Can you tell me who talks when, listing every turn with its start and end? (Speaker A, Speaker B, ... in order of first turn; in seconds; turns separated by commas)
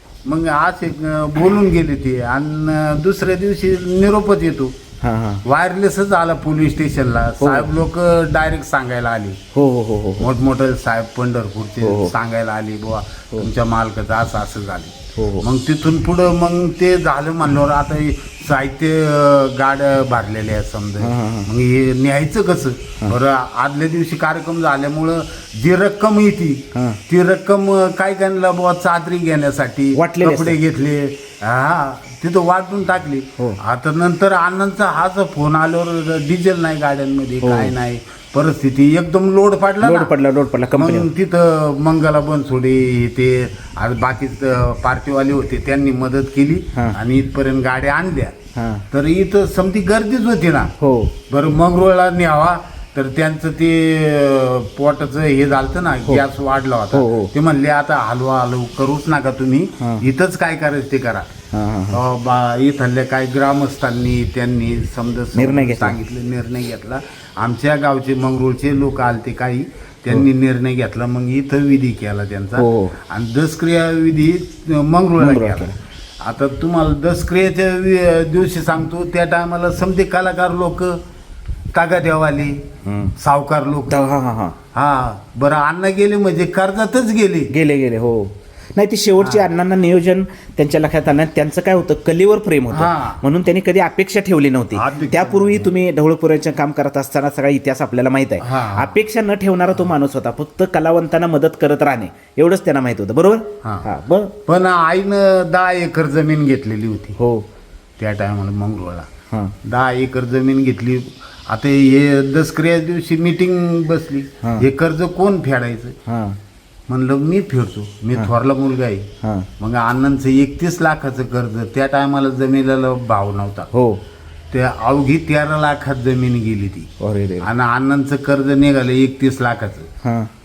Speaker A: 0.2-4.7, Speaker B: 5.0-5.4, Speaker A: 5.4-9.4, Speaker B: 7.4-7.7, Speaker B: 9.5-10.3, Speaker A: 10.2-40.1, Speaker B: 11.8-12.1, Speaker B: 15.1-15.4, Speaker B: 21.0-21.5, Speaker B: 26.7-27.0, Speaker B: 29.9-30.6, Speaker B: 37.4-37.7, Speaker B: 39.8-41.1, Speaker A: 40.7-48.3, Speaker B: 48.5-48.8, Speaker A: 48.9-50.7, Speaker B: 50.8-51.1, Speaker A: 51.3-61.3, Speaker B: 56.9-57.3, Speaker B: 61.5-62.0, Speaker A: 61.9-81.0, Speaker B: 65.3-66.0, Speaker B: 72.5-72.9, Speaker B: 75.2-75.7, Speaker A: 81.7-82.6, Speaker B: 82.8-83.1, Speaker A: 83.2-84.1, Speaker B: 83.9-84.5, Speaker A: 84.7-87.5, Speaker B: 87.5-104.3, Speaker A: 89.2-89.5, Speaker A: 92.7-93.2, Speaker A: 94.8-95.7, Speaker A: 98.4-98.9, Speaker A: 104.5-107.2, Speaker B: 107.2-107.5, Speaker A: 108.0-109.1, Speaker A: 109.6-116.0, Speaker B: 116.1-116.4, Speaker A: 116.9-123.7, Speaker B: 119.2-119.5, Speaker B: 123.7-124.0, Speaker A: 124.5-126.9, Speaker B: 127.0-127.5, Speaker A: 127.4-129.9, Speaker B: 130.0-130.3